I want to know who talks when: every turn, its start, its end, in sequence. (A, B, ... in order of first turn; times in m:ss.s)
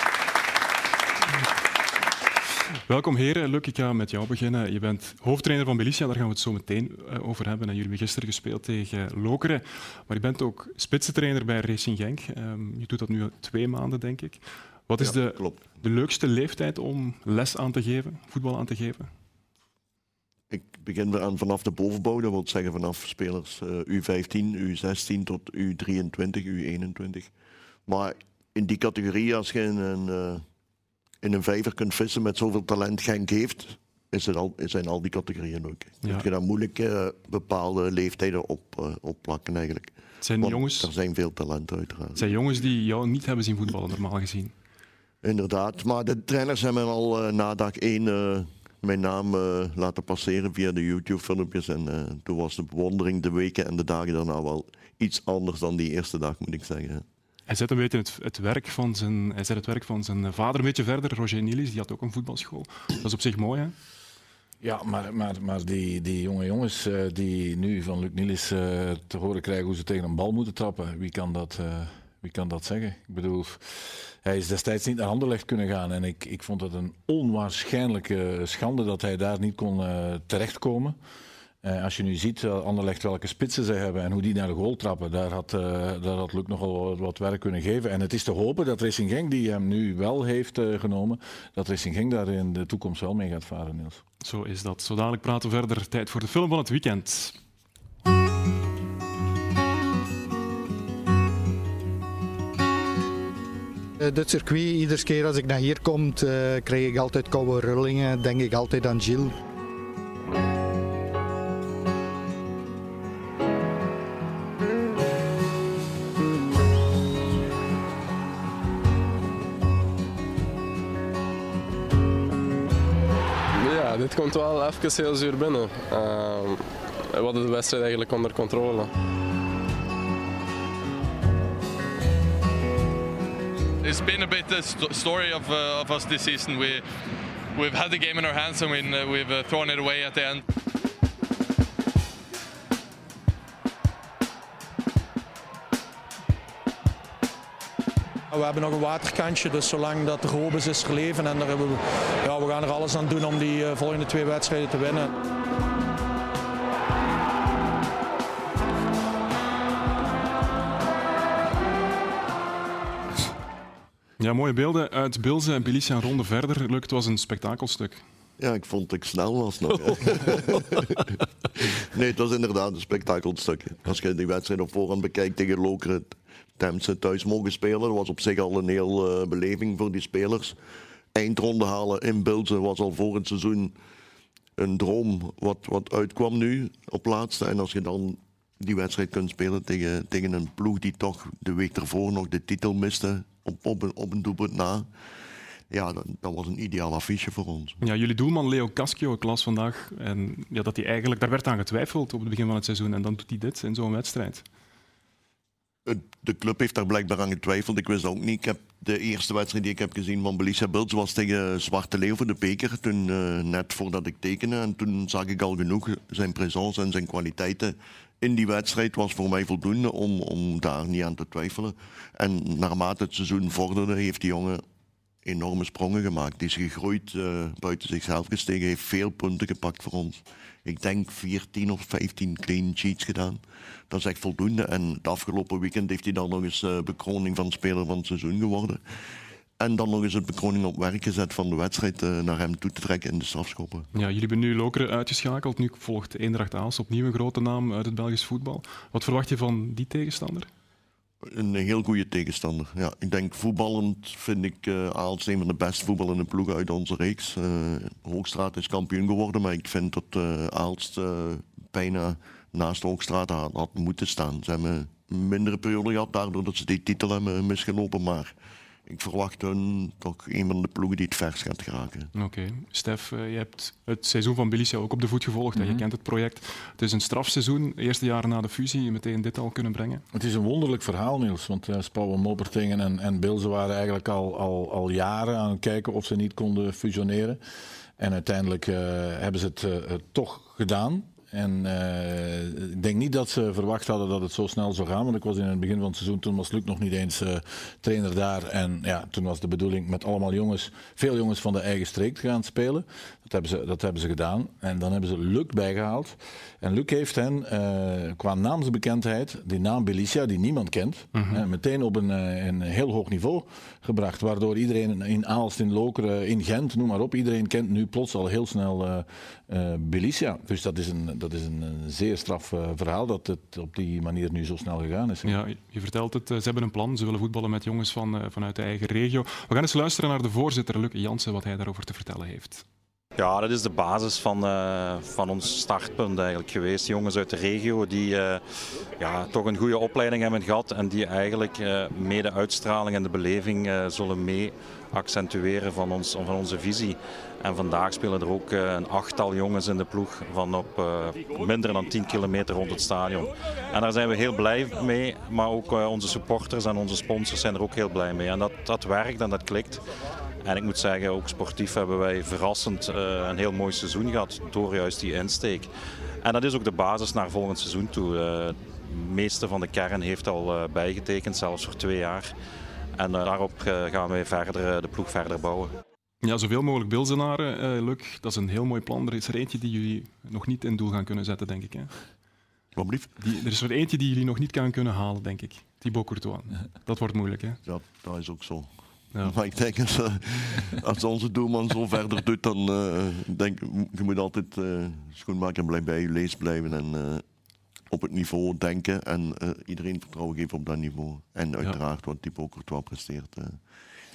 0:02.9-0:19.1 A
0:15.0-0:15.6 B
0:20.5-0:27.3 B
0:27.9-0:30.4 B
0:31.2-0:42.3 B
0:40.2-0:40.9 A
0:42.1-0:44.5 A
0:45.2-0:57.0 B
0:57.5-1:03.7 A
1:04.6-1:21.0 C
1:21.6-1:34.0 C
1:34.2-1:37.4 A
1:44.0-1:49.4 D
2:03.6-2:08.9 E
2:13.8-2:16.8 F
2:17.5-2:20.4 F
2:28.3-2:35.1 G
2:44.2-2:48.0 A
2:48.4-2:51.0 B
2:51.6-3:00.6 B
3:01.1-3:03.7 B
3:04.6-3:14.9 B
3:15.7-3:17.8 B
3:17.8-3:24.4 A
3:25.8-3:44.6 B
3:45.2-3:58.8 B
3:59.6-4:03.9 B
4:03.9-4:10.5 A
4:11.2-4:28.3 B
4:28.9-4:32.1 B
4:32.1-4:40.0 A
4:35.5-4:35.8 C
4:40.1-4:47.4 C
4:48.0-5:25.4 C
5:11.1-5:11.4 A
5:25.2-5:32.6 A
5:33.2-5:38.4 H
5:39.0-5:59.8 H
6:00.4-6:05.7 H
6:06.2-6:12.3 H
6:13.0-6:15.7 H
6:16.2-6:21.9 A
6:22.7-6:23.1 B
6:23.2-6:27.6 A
6:27.6-6:37.2 B
6:37.9-6:43.6 B